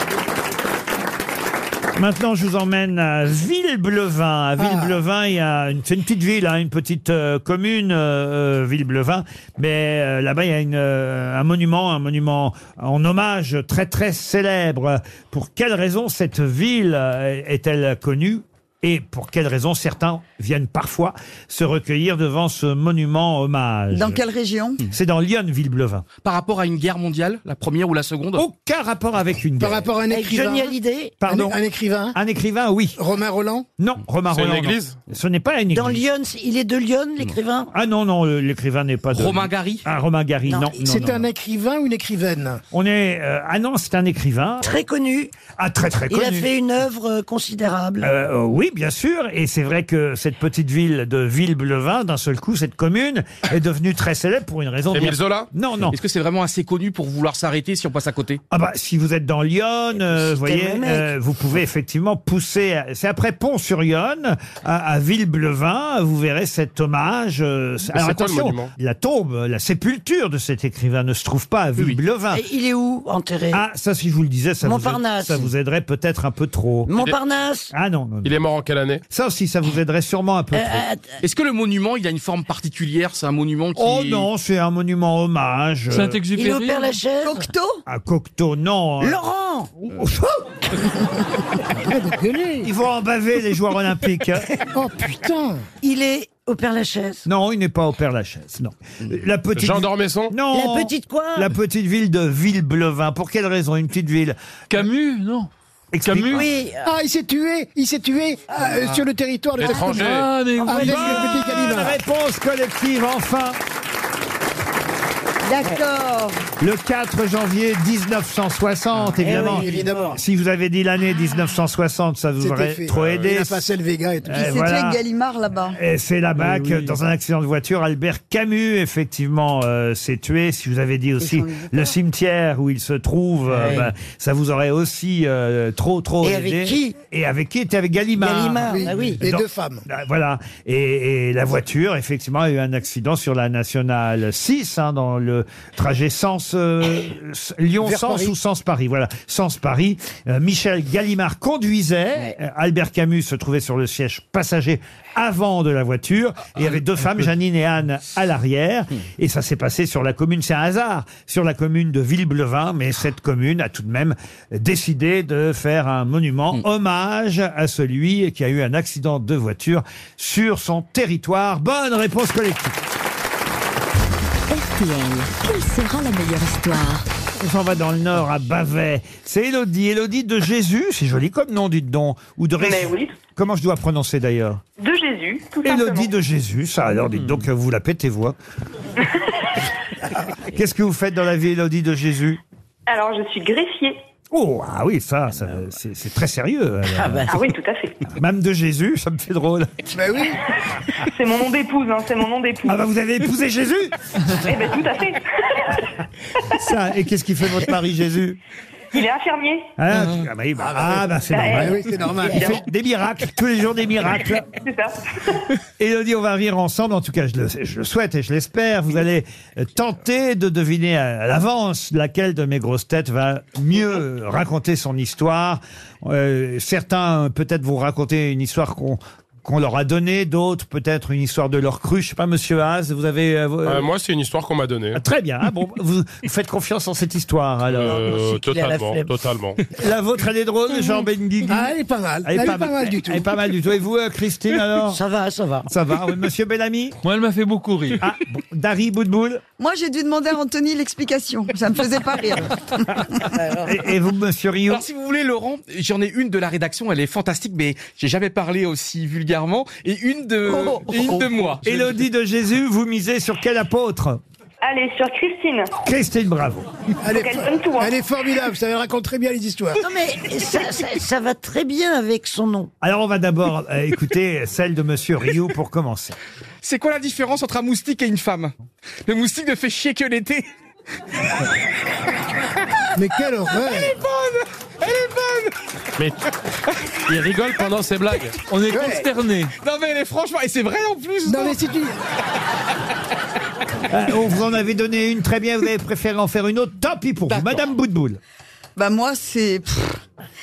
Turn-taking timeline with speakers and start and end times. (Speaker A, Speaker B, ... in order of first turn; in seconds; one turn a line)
Speaker A: 1.9-24.2
Speaker B: 4.6-5.0
Speaker C: 23.9-24.8
Speaker A: 24.9-26.0
Speaker D: 26.2-28.4
Speaker A: 28.4-29.9
Speaker B: 29.6-32.1
Speaker E: 30.1-31.2
Speaker A: 31.2-31.6
Speaker A: 32.1-33.0
Speaker B: 33.0-33.6
Speaker A: 33.8-36.0
Speaker F: 34.3-35.0
Speaker E: 35.7-37.7
Speaker A: 37.7-40.9
Speaker D: 39.1-39.8
Speaker E: 40.5-40.9
Speaker B: 40.8-42.6
Speaker A: 42.7-44.8
Speaker E: 44.6-45.3
Speaker A: 45.6-46.5
Speaker E: 46.1-48.1
Speaker A: 48.0-56.0
Speaker F: 54.9-55.5
Speaker D: 55.9-58.4
Speaker A: 58.5-72.4
Speaker E: 60.0-61.1
Speaker F: 67.9-68.7
Speaker E: 72.3-73.6
Speaker A: 73.5-76.9
Speaker E: 74.6-75.5
Speaker E: 76.9-77.7
Speaker A: 77.7-78.4
Speaker F: 78.2-79.0
Speaker A: 79.1-80.9
Speaker E: 80.5-81.2
Speaker D: 81.2-84.3
Speaker A: 83.8-86.2
Speaker G: 85.9-86.9
Speaker E: 86.3-87.5
Speaker C: 87.2-87.8
Speaker A: 87.8-89.2
Speaker E: 89.0-89.7
Speaker A: 89.9-90.5
Speaker B: 91.8-92.7
Speaker A: 92.6-94.5
Speaker B: 94.7-95.7
Speaker E: 95.8-97.3
Speaker A: 97.3-104.3
Speaker F: 99.5-100.3
Speaker E: 100.5-101.5
Speaker G: 104.7-105.5
Speaker A: 105.9-106.5
Speaker G: 106.0-106.5
Speaker E: 106.3-106.9
Speaker B: 106.8-112.0
Speaker F: 109.6-110.3
Speaker G: 109.8-111.3
Speaker A: 110.7-113.6
Speaker C: 115.5-116.4
Speaker A: 116.6-123.6
Speaker E: 119.2-120.2
Speaker B: 119.2-120.2
Speaker B: 122.4-124.6
Speaker F: 123.0-123.2
Speaker A: 124.3-125.0
Speaker C: 124.3-125.8
Speaker A: 125.7-172.8
Speaker G: 126.4-127.0
Speaker E: 133.5-133.9
Speaker E: 136.2-136.9
Speaker E: 138.2-139.2
Speaker B: 138.7-139.8
Speaker B: 147.8-148.3
Speaker H: 174.5-177.1
Speaker A: 177.4-184.6
Speaker I: 182.6-183.1
Speaker I: 184.8-186.1
Speaker A: 185.6-188.3
Speaker A: 190.5-192.4
Speaker I: 192.9-193.9
Speaker A: 194.3-197.4
Speaker E: 196.9-197.2
Speaker I: 197.3-197.9
Speaker A: 198.1-199.9
Speaker B: 199.9-200.4
Speaker I: 201.1-202.8
Speaker A: 202.6-203.9
Speaker I: 204.4-205.2
Speaker A: 206.5-208.4
Speaker I: 208.9-209.7
Speaker A: 209.8-214.4
Speaker B: 210.6-212.5
Speaker I: 211.3-211.7
Speaker I: 214.6-214.9
Speaker A: 215.8-233.9
Speaker F: 233.6-235.0
Speaker A: 234.9-238.2
Speaker F: 237.7-239.6
Speaker E: 237.8-239.1
Speaker A: 239.7-241.7
Speaker B: 241.5-243.2
Speaker A: 242.2-245.0
Speaker E: 244.8-245.7
Speaker A: 245.7-246.9
Speaker G: 247.0-248.0
Speaker A: 248.0-249.4
Speaker C: 249.6-253.0
Speaker E: 253.3-253.8
Speaker A: 253.6-254.8
Speaker D: 254.7-261.7
Speaker C: 260.5-260.8
Speaker A: 261.6-264.2
Speaker I: 264.6-265.7
Speaker A: 265.8-266.7
Speaker B: 267.0-269.8
Speaker I: 267.1-267.9
Speaker E: 269.8-272.7
Speaker A: 272.8-276.1
Speaker D: 276.6-278.5
Speaker D: 279.1-280.4
Speaker B: 282.9-284.0
Speaker D: 283.5-285.5
Speaker F: 287.1-288.4
Speaker G: 288.5-289.5
Speaker B: 288.7-289.1
Speaker D: 289.6-291.6
Speaker B: 291.2-292.0
Speaker A: 293.9-298.2
Speaker D: 297.3-297.6
Speaker C: 298.8-300.0